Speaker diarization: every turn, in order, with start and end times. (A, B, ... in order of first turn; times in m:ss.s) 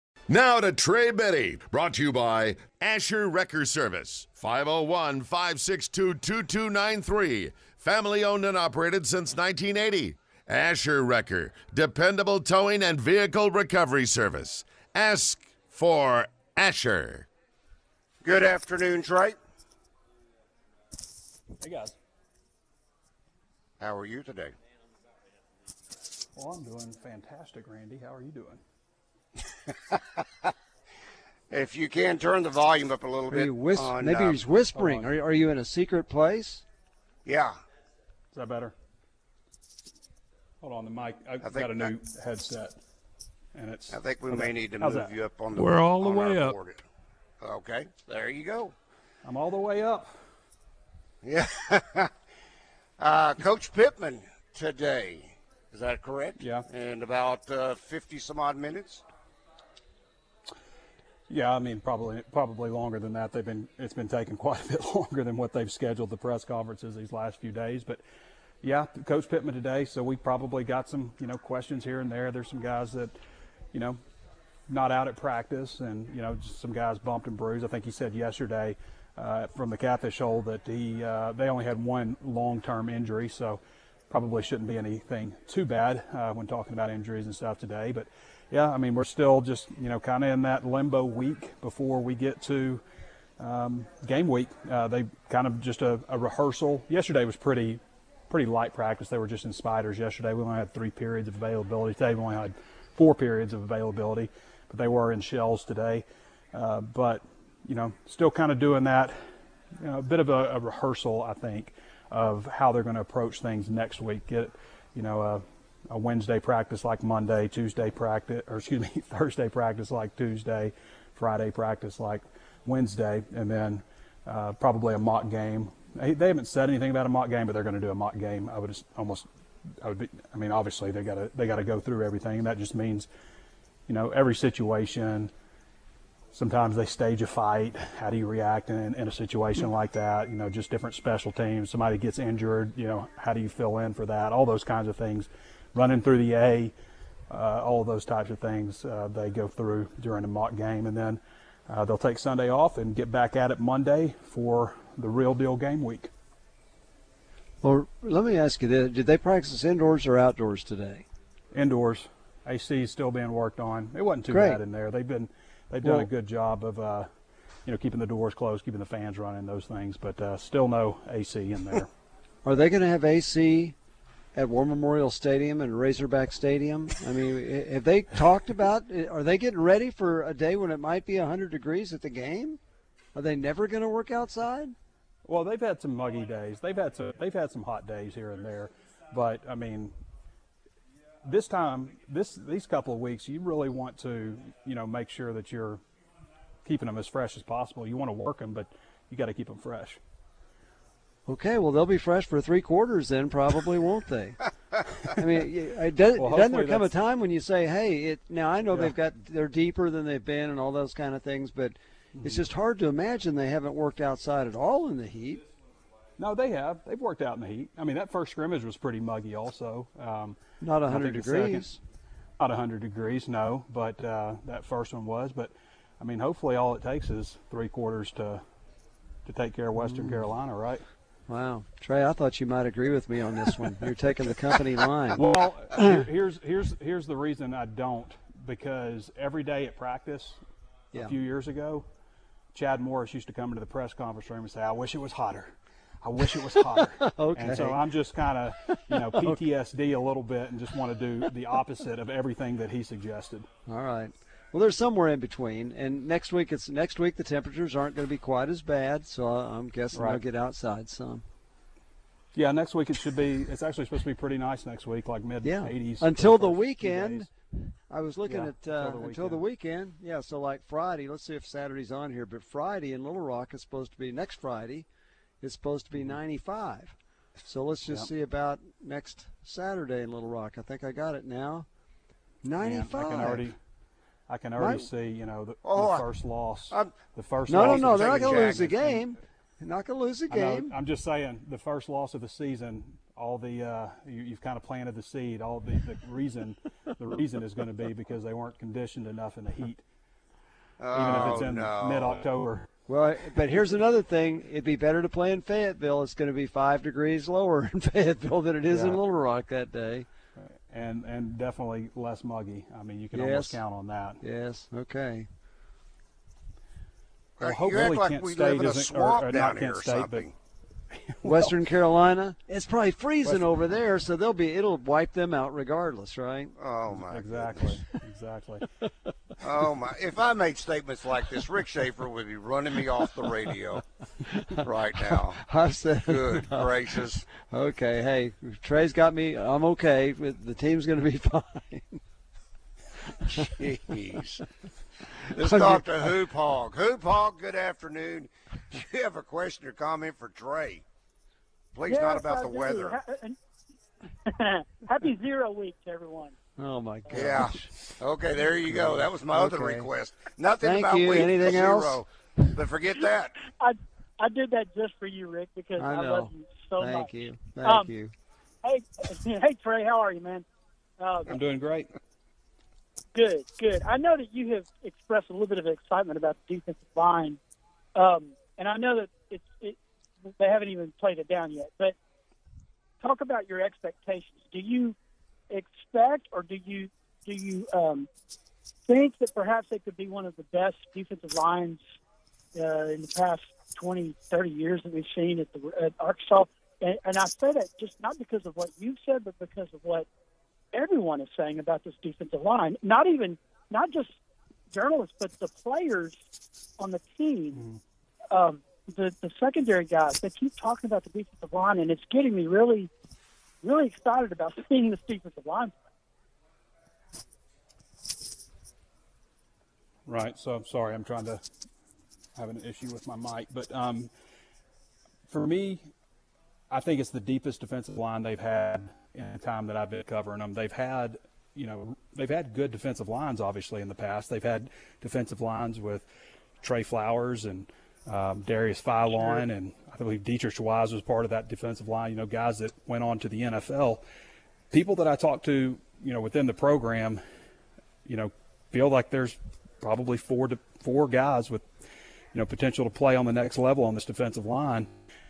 0:00.3-0:17.3 A
0:18.2-0:19.4 B
0:21.6-0:22.0 C
0:23.8-0:24.5 B
0:26.4-0:28.6 C
0:31.5-0:34.4 B
0:33.3-0:36.6 D
0:34.8-0:35.1 C
0:37.2-0:37.5 B
0:38.3-0:38.8 C
0:40.6-0:42.8 C
0:41.4-0:41.9 B
0:43.5-0:45.1 C
0:43.9-0:46.8 B
0:47.4-0:48.7 B
0:49.2-0:50.1 C
0:51.2-0:52.1 B
0:53.0-0:59.0 B
0:56.4-0:56.7 C
1:01.3-1:08.0 C
1:08.6-1:13.1 C
1:13.7-1:14.0 C
1:14.7-1:32.8 C
1:33.4-1:49.2 C
1:49.8-2:09.3 C
2:09.8-2:13.1 C
2:13.9-2:15.3 C
2:16.3-2:26.7 C
2:27.3-2:36.1 C
2:37.6-2:41.1 D
2:41.5-2:47.1 C
2:44.3-2:44.6 D
2:45.8-2:46.1 D
2:47.7-2:51.9 C
2:52.4-2:53.8 D
2:54.4-3:02.6 D
3:03.2-3:04.8 D
3:05.2-3:09.9 C
3:11.2-3:15.8 C
3:16.6-3:20.0 C
3:21.3-3:24.4 D
3:25.0-3:35.4 D
3:26.2-3:26.9 C
3:32.2-3:32.4 C
3:36.2-3:41.8 C
3:40.6-3:41.8 D
3:42.4-3:48.4 C
3:49.2-3:50.8 C
3:49.8-3:50.2 D
3:51.3-3:55.2 D
3:55.1-4:00.4 C
4:01.0-4:01.9 C
4:02.5-4:13.5 C
4:07.0-4:07.8 D
4:08.9-4:09.4 D
4:13.7-4:21.2 D
4:19.9-4:20.2 C
4:22.3-4:27.3 C
4:25.4-4:34.9 D
4:28.2-4:29.4 C
4:35.4-4:36.9 D
4:37.4-4:41.7 D
4:42.4-4:43.5 D
4:42.6-4:43.6 C
4:44.3-4:49.0 C
4:44.6-4:44.9 D
4:45.6-4:46.1 B
4:47.5-4:50.8 D
4:47.5-4:48.7 B
4:50.3-4:59.8 C
5:00.8-5:02.2 B
5:00.9-5:02.7 C
5:02.9-5:10.1 D
5:08.7-5:09.0 C
5:10.4-5:14.2 C
5:13.1-5:13.6 D
5:14.2-5:15.3 D
5:17.4-5:20.3 B
5:17.4-5:20.3 C
5:20.9-5:21.5 C
5:21.2-5:26.6 D
5:26.6-5:27.6 B
5:26.9-5:28.7 C
5:29.4-5:33.8 B
5:34.6-5:35.4 B
5:35.4-5:42.0 D
5:36.1-5:37.2 B
5:43.3-5:44.4 B
5:45.3-5:50.8 B
5:45.4-5:45.9 D
5:51.7-5:53.0 B
5:51.9-5:53.4 E
5:54.2-5:56.4 E
5:56.6-5:57.7 D
5:57.1-6:03.4 B
5:58.7-5:59.9 D
6:00.6-6:02.0 D
6:03.5-6:07.1 E
6:05.8-6:08.1 D
6:07.6-6:07.9 E
6:08.6-6:10.5 E
6:11.0-6:11.3 E
6:11.3-6:11.9 C
6:13.1-6:17.4 E
6:18.0-6:22.0 E
6:23.0-6:25.0 E
6:25.5-6:28.1 E
6:28.9-6:31.8 E
6:32.5-6:40.1 E
6:40.7-6:44.2 E
6:44.7-6:46.2 E
6:46.8-6:47.6 E
6:47.5-6:47.8 C
6:48.3-6:52.9 E
6:53.6-6:55.8 E
7:00.1-7:01.4 C
7:02.4-7:04.1 C
7:05.3-7:05.9 C
7:06.7-7:16.1 C
7:16.6-7:24.0 C
7:24.7-7:27.2 C
7:28.1-7:31.7 C
7:32.3-7:34.9 C